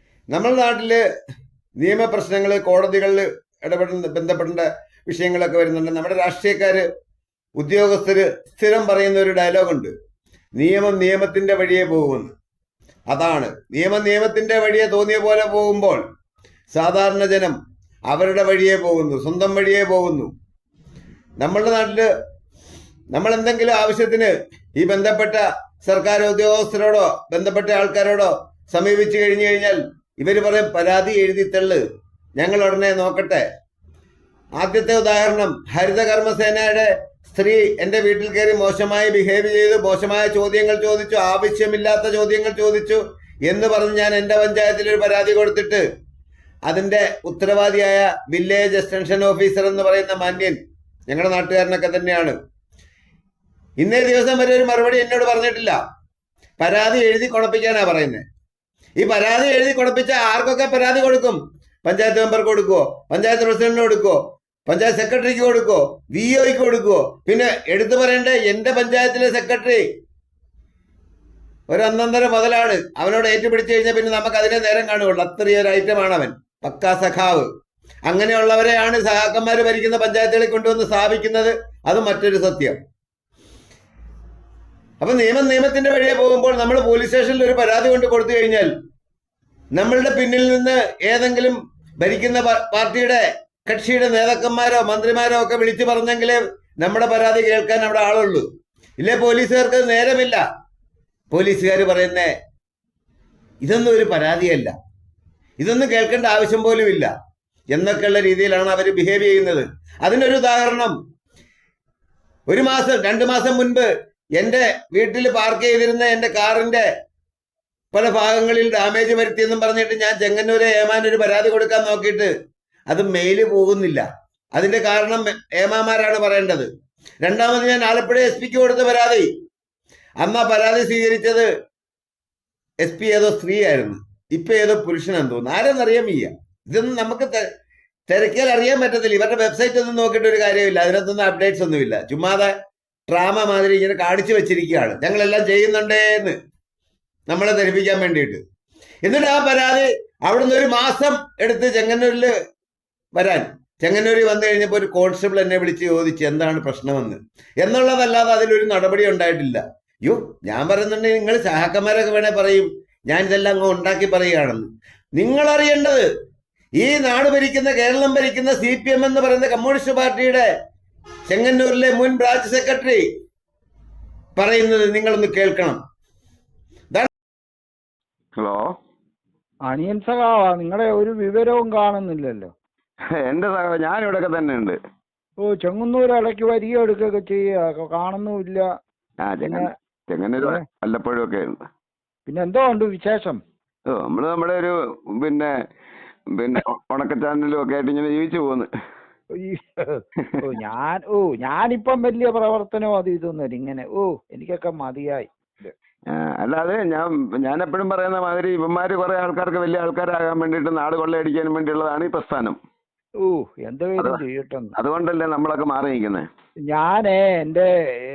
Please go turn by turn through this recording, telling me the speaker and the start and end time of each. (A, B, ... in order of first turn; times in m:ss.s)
0:00.3-0:01.0 A
0:01.8-0:06.8 A
0:07.6-0:09.9 A
0:10.6-0:12.3 A
0:13.1-0:16.0 A
0:16.7-0:17.6 A
0:18.1-0:20.3 A
0:21.4-0:22.1 A
0:23.1-0:31.8 A
0:32.4-0:33.4 A
0:34.6-0:45.8 A
0:46.7-0:52.4 A
0:53.8-0:55.8 A
0:56.6-0:58.2 A
0:59.0-1:09.8 A
1:11.7-1:17.5 A
1:18.1-1:22.8 A
1:25.0-1:28.7 A
1:29.8-1:38.4 A
1:39.0-1:40.4 A
1:41.3-1:42.3 A
1:43.6-1:44.7 A
1:45.6-1:47.1 A
1:47.7-1:51.0 A
1:52.5-1:56.9 A
1:57.9-2:02.3 A
2:02.9-2:06.7 A
2:07.2-2:09.3 A
2:10.2-2:11.5 A
2:12.8-2:17.4 A
2:18.1-2:22.5 A
2:23.1-2:26.4 A
2:27.3-2:28.4 A
2:29.0-2:32.3 A
2:33.2-2:46.1 A
2:46.8-2:50.5 A
2:51.3-2:53.0 A
2:54.4-2:55.8 A
2:58.4-2:58.7 B
2:59.7-3:02.5 C
3:03.2-3:04.8 B
3:05.4-3:08.6 C
3:09.2-3:11.6 B
3:09.4-3:09.7 C
3:12.3-3:13.4 C
3:13.9-3:15.5 B
3:16.4-3:18.7 B
3:19.4-3:25.7 C
3:26.1-3:32.6 B
3:33.2-3:34.8 C
3:34.8-3:36.3 B
3:36.7-3:37.7 C